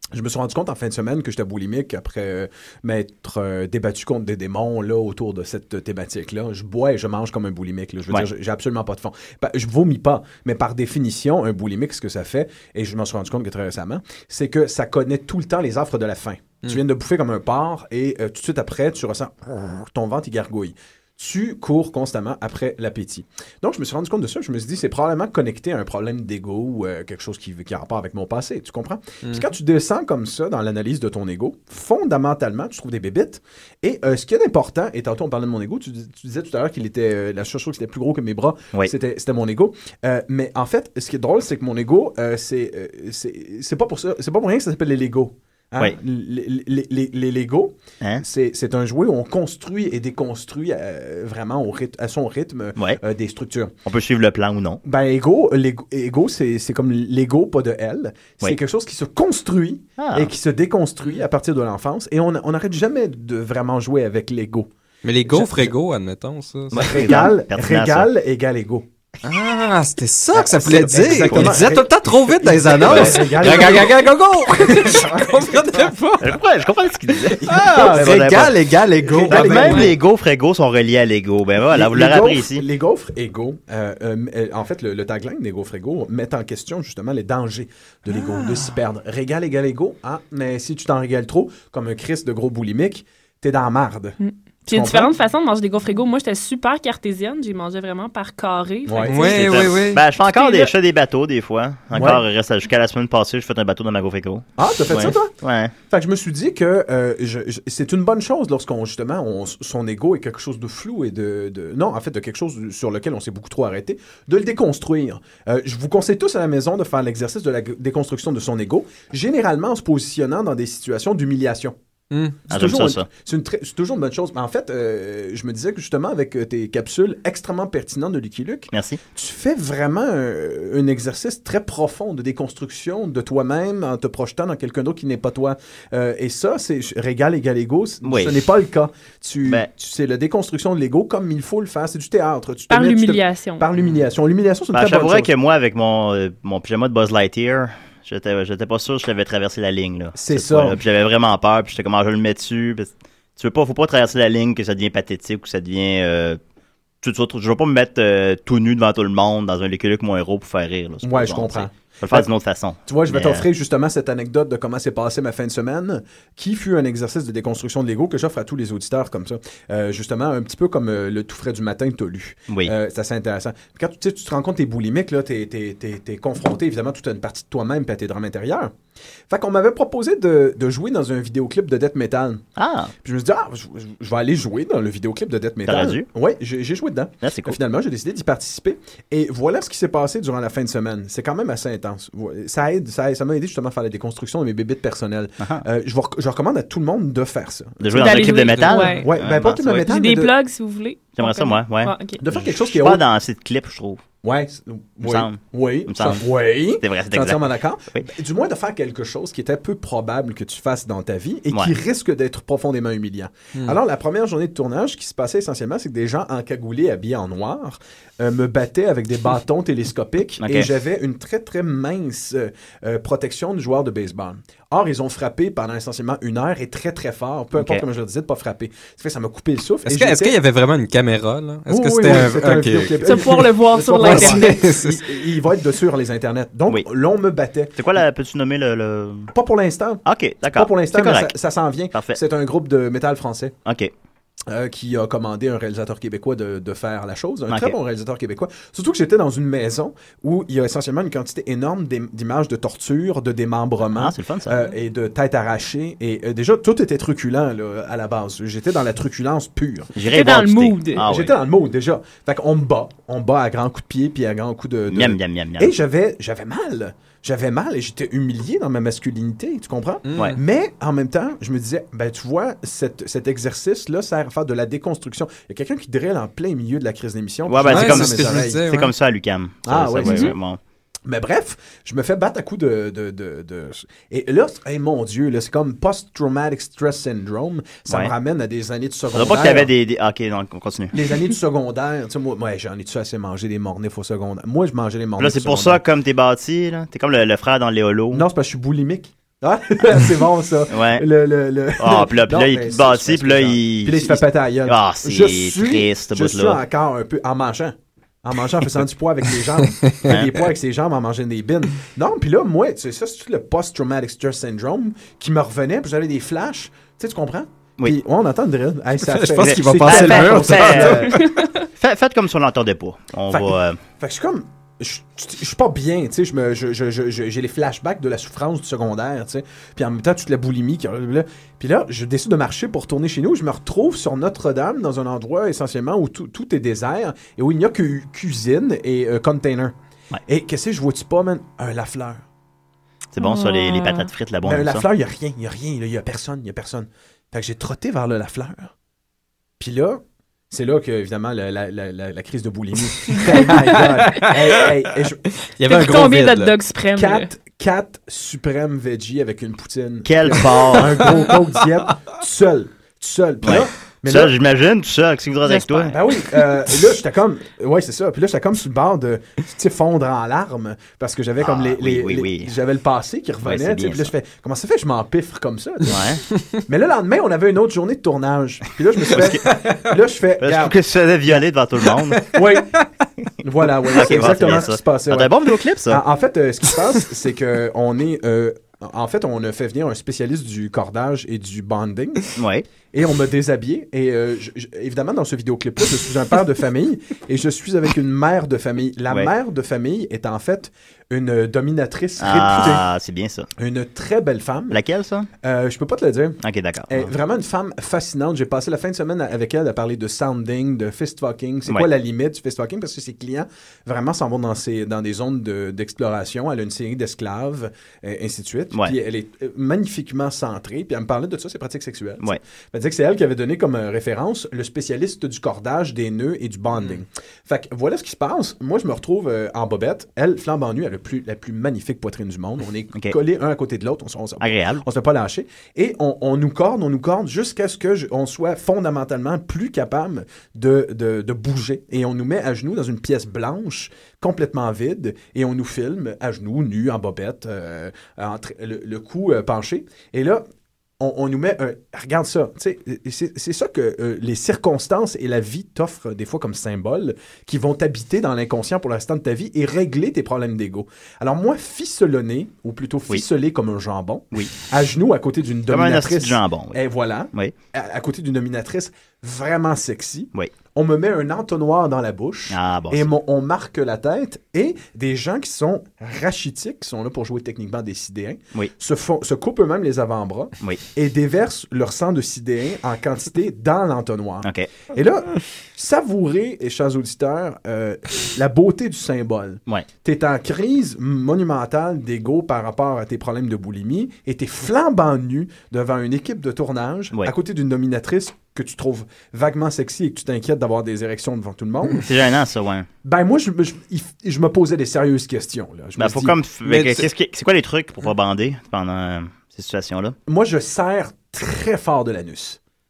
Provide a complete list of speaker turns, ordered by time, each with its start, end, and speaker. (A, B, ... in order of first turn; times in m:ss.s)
0:00.1-0:53.7 A
0:53.9-0:54.8 B
0:54.8-1:04.7 A
1:00.0-1:00.3 B
1:05.0-1:07.0 C
1:05.2-1:05.7 A
1:06.7-1:08.1 B
1:06.7-1:08.9 A
1:09.2-1:16.4 C
1:10.3-1:14.1 A
1:11.3-1:11.6 B
1:12.8-1:13.8 B
1:14.6-1:15.9 A
1:16.2-1:18.6 B
1:17.3-1:19.9 C
1:17.4-1:20.0 A
1:19.3-1:22.6 B
1:21.7-1:34.2 A
1:28.1-1:28.8 C
1:34.2-1:39.7 D
1:34.7-1:35.1 A
1:38.9-1:39.2 A
1:39.0-1:40.0 C
1:39.2-1:45.7 B
1:40.3-1:40.7 D
1:41.9-1:42.2 A
1:44.6-1:45.3 A
1:45.9-2:01.8 A
2:02.1-2:02.4 C
2:02.5-2:25.3 A
2:02.5-2:03.1 B
2:08.7-2:09.0 B
2:18.0-2:18.4 B
2:22.7-2:23.7 D
2:24.7-2:36.4 B
2:30.2-2:30.8 A
2:37.0-2:43.5 B
2:41.0-2:42.3 A
2:42.9-2:58.7 A
2:52.5-2:52.7 B
2:59.3-3:02.4 A
3:02.6-3:02.9 B
3:03.0-3:20.3 A
3:05.7-3:06.1 B
3:07.2-3:07.6 B
3:17.8-3:19.9 B
3:18.0-3:19.1 D
3:19.7-3:22.2 D
3:21.2-3:24.0 B
3:22.2-3:23.0 A
3:24.2-3:50.4 A
3:25.0-3:28.1 B
3:40.4-3:40.7 B
3:47.6-3:47.8 B
3:49.8-3:55.1 C
3:51.7-3:57.7 A
3:53.0-3:54.6 D
3:57.8-3:59.3 B
3:59.3-4:00.0 A
4:00.0-4:01.3 B
4:00.5-4:03.6 A
4:01.9-4:02.2 B
4:03.7-4:03.9 B
4:04.5-4:19.9 A
4:07.5-4:07.8 B
4:14.0-4:14.7 B
4:20.0-4:21.4 B
4:20.1-4:21.0 D
4:21.0-4:38.7 A
4:24.9-4:25.7 B
4:30.1-4:30.4 C
4:37.5-4:40.6 B
4:37.7-4:38.9 C
4:39.7-4:40.3 A
4:40.0-4:40.4 D
4:41.1-4:49.7 A
4:47.9-4:48.1 B
4:49.1-4:51.0 B
4:50.9-4:55.8 A
4:55.2-4:58.3 B
4:58.1-5:21.2 A
5:00.7-5:01.1 B
5:01.8-5:06.6 B
5:09.8-5:10.1 C
5:10.1-5:10.4 B
5:19.0-5:21.4 C
5:19.4-5:21.1 B
5:21.2-5:21.5 D
5:21.8-5:23.8 B
5:23.3-5:39.7 A
5:40.3-5:42.2 A
5:43.1-5:44.8 B
5:43.2-5:44.1 D
5:44.4-5:48.7 A
5:49.6-5:55.2 A
5:53.1-5:54.7 C
5:55.6-5:56.6 C
5:55.7-5:57.3 D
5:57.0-6:04.4 A
6:00.1-6:01.1 B
6:03.4-6:06.0 B
6:05.5-6:16.0 A
6:11.4-6:12.5 B
6:13.4-6:14.1 B
6:15.9-6:16.2 B
6:16.7-6:20.8 A
6:19.1-6:19.4 B
6:19.5-6:19.8 C
6:20.4-6:22.3 B
6:22.2-6:22.8 C
6:22.3-6:22.8 A
6:23.4-6:32.3 A
6:23.9-6:26.0 B
6:32.4-6:32.6 B
6:32.9-6:42.8 A
6:42.2-6:43.5 B
6:43.6-6:44.8 A
6:44.7-6:45.3 B
6:45.4-7:30.4 A
6:46.4-6:47.1 B
7:14.4-7:14.8 B
7:31.0-8:22.1 A
7:45.7-7:46.8 B
7:52.5-7:53.1 B
8:22.0-8:22.9 B
8:23.0-8:26.4 A
8:26.0-8:30.2 B
8:26.7-8:27.1 C
8:30.3-8:32.6 A